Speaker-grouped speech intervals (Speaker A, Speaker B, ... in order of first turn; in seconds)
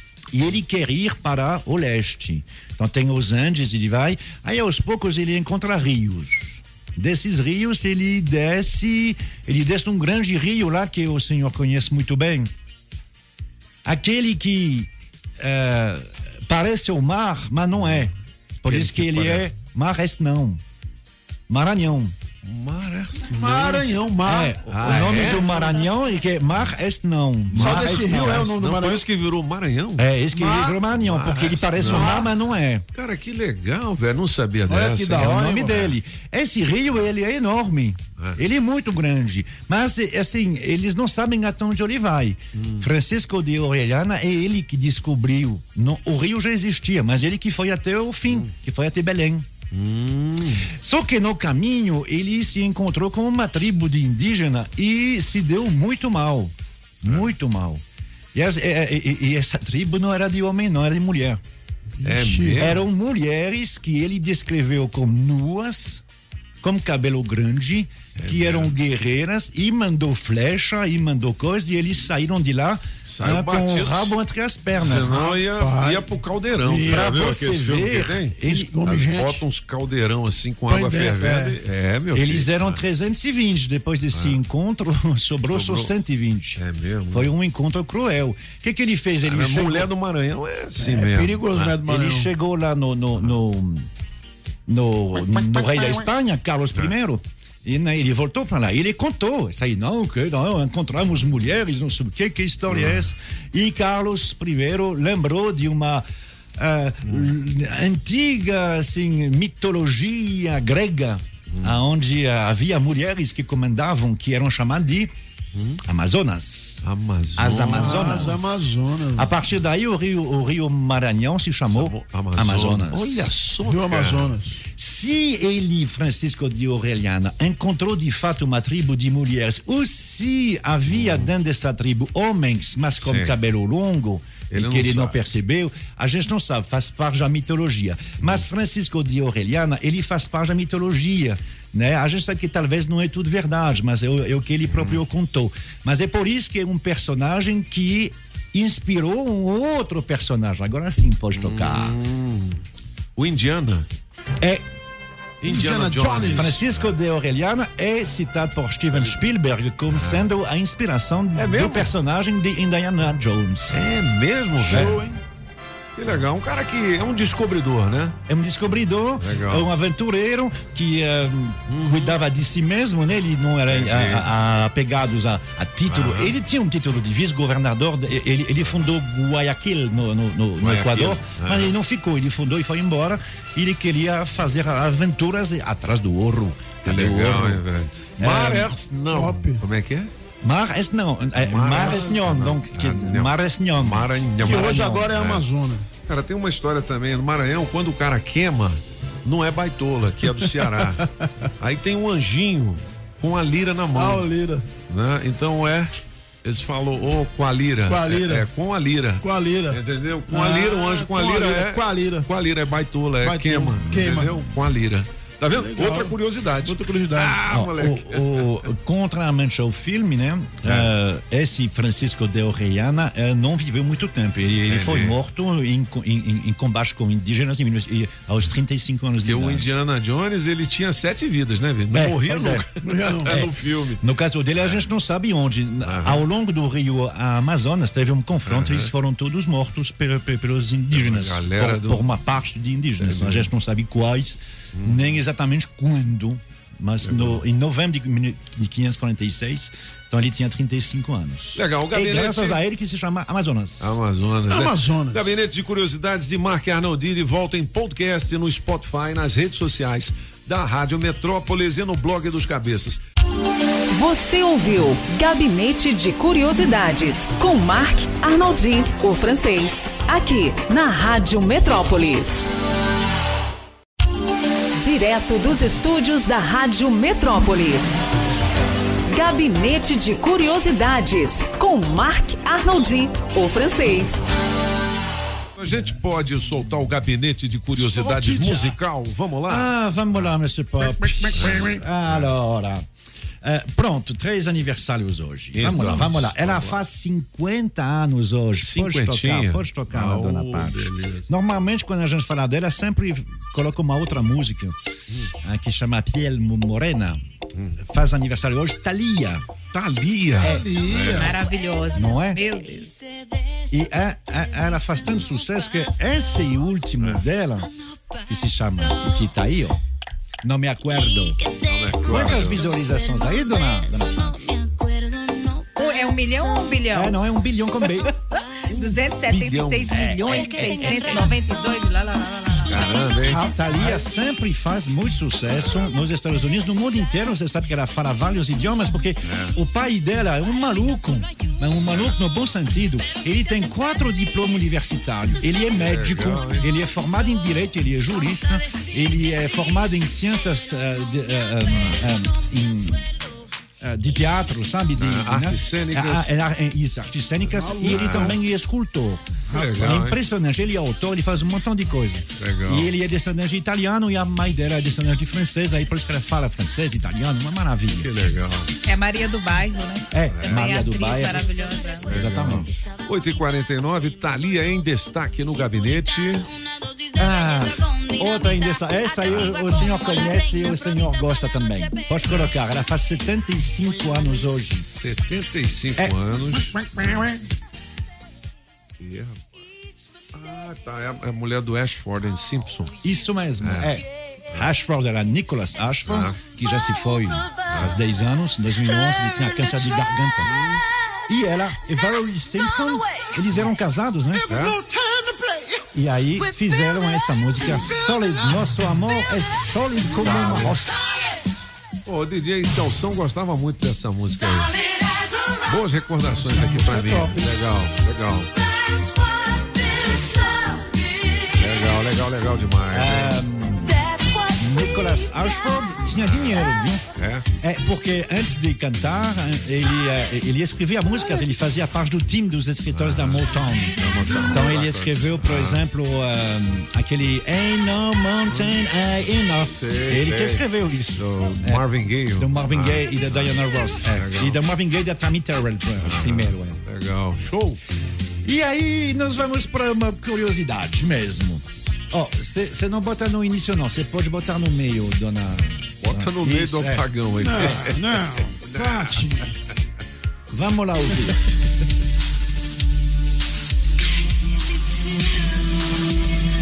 Speaker A: 0.3-12.5, 13.8-14.9, 15.4-20.6, 21.5-22.1, 24.2-28.4, 30.0-32.8, 35.1-49.5, 50.6-57.8, 58.3-61.4, 62.5-66.0, 66.6-75.2, 76.8-78.8, 82.1-89.9, 91.8-93.9, 94.7-106.0, 106.6-115.1, 115.8-116.8, 117.4-123.3, 124.8-152.0, 156.3-163.8, 164.7-165.0, 168.3-187.6, 188.2-188.7, 190.4-195.1, 217.4-229.8, 231.9-232.7, 233.2-254.0, 289.4-292.9, 293.4-304.7, 305.4-307.2, 307.8-309.7, 310.3-310.7, 311.9-312.5, 313.7-317.7, 318.3-319.8, 320.4-321.5, 322.0-324.7, 326.9-328.1, 329.9-331.3, 333.2-353.2, 353.8-368.1, 370.1-371.5, 372.0-372.7, 377.1-384.8, 393.0-400.5, 401.3-404.5, 405.9-411.0, 422.9-427.0, 427.6-446.8, 448.4-457.1, 457.6-457.9, 460.5-461.4
Speaker B: 18.6-19.5, 22.4-23.9, 24.6-25.5, 27.5-30.1, 30.9-32.3, 32.9-36.0, 42.5-42.9, 49.7-50.7, 62.0-62.9, 68.1-68.7, 73.0-74.1, 74.7-82.8, 84.1-84.4, 85.5-85.9, 86.6-87.3, 89.2-91.8, 102.7-103.1, 111.5-111.8, 115.5-115.8, 116.8-118.5, 121.7-124.3, 130.9-131.3, 133.0-133.3, 134.5-135.2, 144.7-145.0, 151.3-152.6, 153.2-153.9, 155.4-156.9, 159.9-160.3, 161.3-161.9, 163.7-165.0, 165.9-168.2, 169.2-169.7, 171.7-172.2, 173.7-174.3, 175.9-176.3, 180.6-181.8, 186.8-190.1, 191.3-195.4, 196.0-201.1, 201.6-204.3, 204.8-218.5, 220.6-220.9, 224.6-225.2, 229.2-234.9, 235.8-236.3, 238.4-238.9, 240.9-242.1, 243.0-243.5, 244.7-245.2, 247.0-247.4, 251.5-252.6, 253.8-263.0, 285.6-290.3, 291.3-292.3, 295.5-296.8, 298.5-301.3, 309.7-311.3, 321.6-322.7, 329.2-330.6, 332.7-333.5, 335.5-335.9, 339.2-339.6, 345.7-346.7, 355.0-356.3, 357.8-358.4, 359.5-360.2, 362.4-362.9, 368.0-368.7, 370.3-370.6, 372.0-376.6, 384.8-387.4, 389.0-389.4, 390.3-392.9, 393.6-394.0, 396.1-396.4, 397.7-398.0, 400.4-400.8, 404.5-404.9, 410.1-410.8, 412.1-414.8, 415.6-418.5, 421.5-423.4, 426.2-426.6, 427.1-427.5, 432.9-435.8, 438.5-438.8, 439.6-444.6, 446.0-447.8, 456.0-459.3
Speaker C: 23.2-24.6, 25.1-25.4, 27.5-29.0, 30.3-30.8, 31.8-32.3, 34.7-35.8, 62.0-62.6, 74.9-77.1, 78.5-79.4, 80.7-81.6, 90.8-92.3, 117.7-119.3, 123.3-124.6, 155.4-156.6, 164.6-165.2, 189.1-189.6, 191.7-192.1, 194.4-195.9, 203.9-204.7, 207.8-208.4, 209.2-212.3, 213.2-214.4, 215.5-217.4, 232.8-233.4, 254.5-255.2, 287.8-288.7, 310.4-311.4, 333.7-334.0, 357.5-358.3, 405.2-405.7, 457.4-459.5
Speaker D: 263.9-272.5, 274.7-278.0, 279.1-284.2
Speaker E: 311.2-312.9, 325.7-327.2, 328.7-332.8, 368.8-372.1